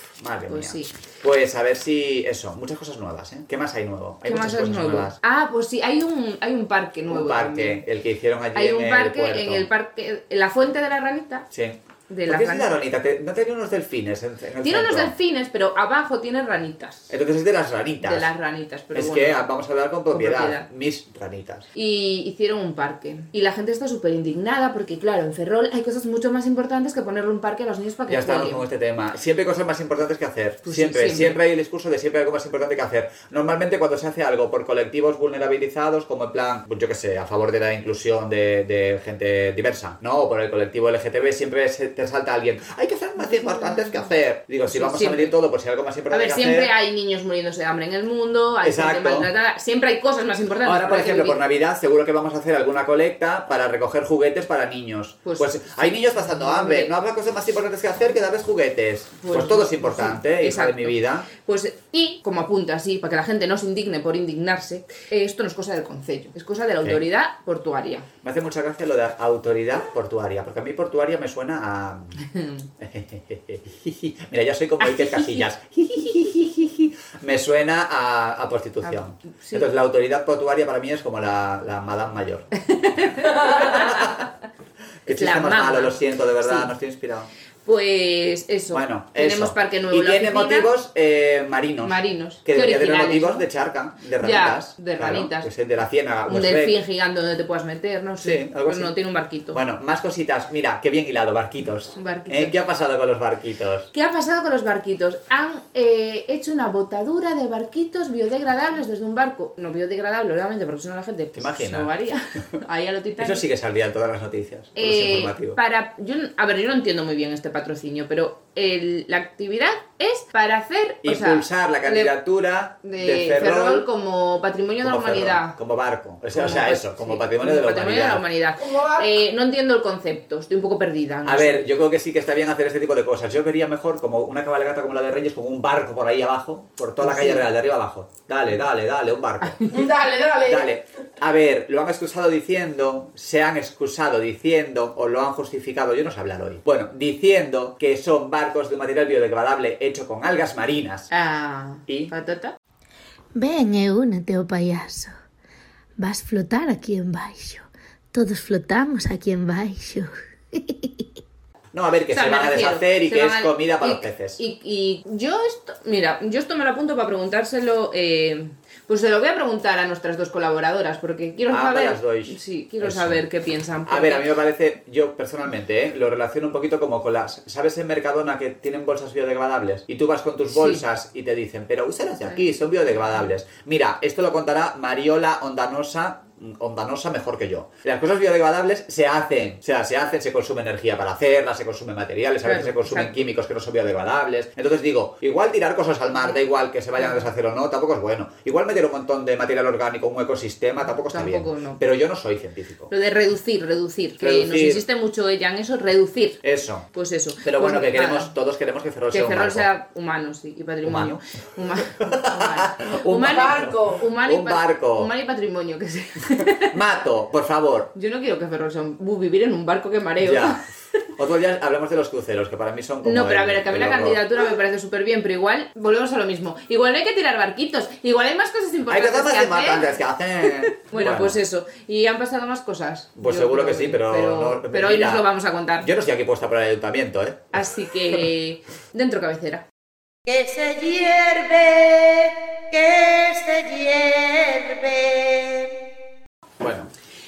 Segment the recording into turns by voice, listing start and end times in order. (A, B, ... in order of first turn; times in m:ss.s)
0:00.2-0:05.1 A
0:00.5-0:00.9 B
0:04.2-0:07.8 B
0:07.1-0:09.7 A
0:08.5-0:11.5 B
0:11.5-0:15.1 A
0:12.1-0:12.8 B
0:14.6-0:17.1 B
0:17.1-0:18.3 A
0:18.0-0:19.5 B
0:18.9-0:21.6 A
0:20.1-0:20.7 B
0:21.7-0:28.6 B
0:28.1-0:46.7 A
0:30.6-0:31.4 B
0:43.2-0:44.1 B
0:44.7-0:45.3 B
0:46.1-0:51.4 B
0:48.6-0:49.3 A
0:50.6-1:01.3 A
0:55.2-0:56.9 B
0:59.2-1:08.1 B
1:08.2-1:12.2 A
1:12.2-1:12.6 B
1:12.8-1:22.5 A
1:14.8-1:15.5 B
1:18.8-1:19.6 B
1:22.6-1:24.2 B
1:23.2-1:24.2 A
1:25.0-1:27.3 A
1:25.1-1:26.7 B
1:27.6-1:30.7 B
1:28.7-1:36.8 A
1:31.8-1:33.5 B
1:34.2-1:35.5 B
1:36.3-1:39.6 B
1:38.2-1:39.0 A
1:39.5-1:43.9 A
1:42.0-1:42.5 B
1:43.9-1:53.4 B
1:51.4-1:51.9 A
1:53.2-1:55.6 A
1:54.8-2:02.1 B
2:01.0-2:03.8 A
2:02.8-2:05.6 B
2:04.8-2:08.3 A
2:06.3-2:11.7 B
2:08.6-2:09.2 C
2:11.2-2:19.6 A
2:17.0-2:17.4 B
2:19.4-2:19.8 B
2:19.7-2:20.7 C
2:20.4-2:31.1 A
2:31.1-2:32.5 B
2:33.3-2:35.1 D
2:36.0-2:41.1 D
2:41.7-2:44.4 A
2:42.1-2:54.3 B
2:51.5-2:53.2 A
2:53.8-3:22.9 A
3:00.5-3:00.8 B
3:12.4-3:13.2 B
3:17.0-3:17.2 B
3:21.1-3:21.8 B
3:22.9-3:26.4 B
3:24.2-3:24.8 A
3:26.4-3:26.8 A
3:26.9-3:28.3 B
3:27.4-3:29.7 A
3:29.1-3:36.8 B
3:30.8-3:31.2 A
3:31.9-3:35.1 A
3:33.5-3:33.9 C
3:36.7-3:37.9 A
3:37.9-3:40.6 B
3:40.2-3:40.6 A
3:41.2-3:44.2 A
3:43.0-3:55.9 B
3:48.9-3:51.4 A
3:53.2-3:55.2 A
3:55.8-3:57.6 A
3:57.5-3:59.6 B
4:00.2-4:05.8 C
4:06.6-4:06.9 A